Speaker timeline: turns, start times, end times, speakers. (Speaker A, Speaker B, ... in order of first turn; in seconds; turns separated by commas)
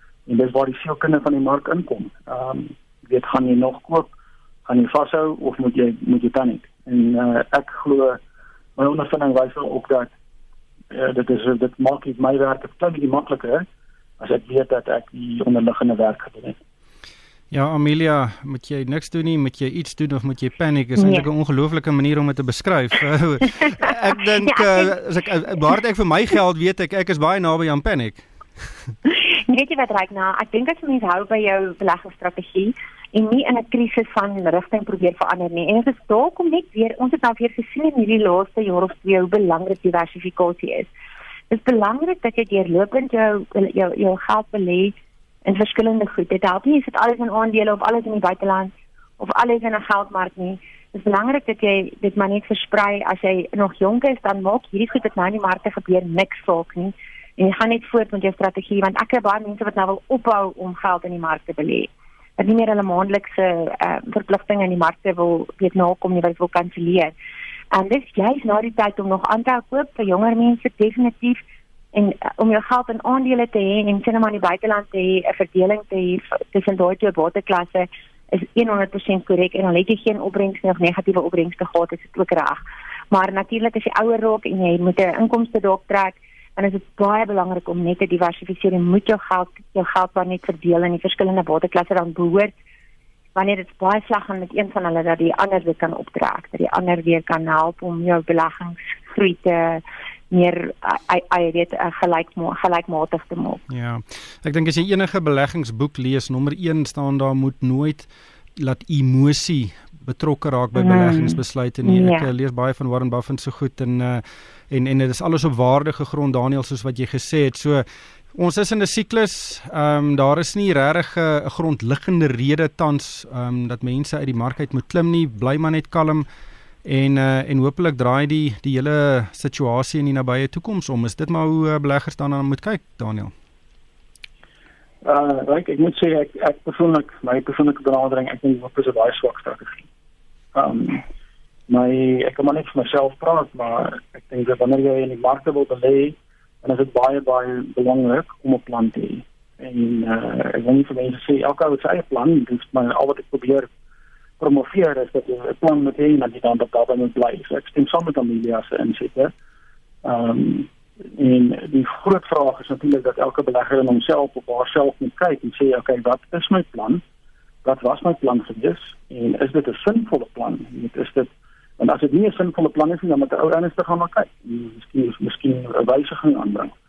Speaker A: 0.3-4.1, Speaker A: 4.6-8.2, Speaker A: 8.8-10.1, Speaker A: 10.9-13.6, Speaker A: 14.2-16.6, Speaker B: 17.5-28.2, Speaker C: 21.0-21.3, Speaker C: 24.4-24.9, Speaker C: 29.1-40.9, Speaker C: 41.5-44.9, Speaker C: 45.4-67.1, Speaker C: 67.7-71.4, Speaker C: 71.9-92.5, Speaker C: 93.3-103.6, Speaker B: 103.7-126.2, Speaker C: 110.7-112.3, Speaker B: 126.8-133.3, Speaker A: 135.0-139.8, Speaker A: 140.5-141.0, Speaker A: 141.7-153.7, Speaker A: 154.4-159.3, Speaker A: 160.0-167.0, Speaker A: 167.6-176.7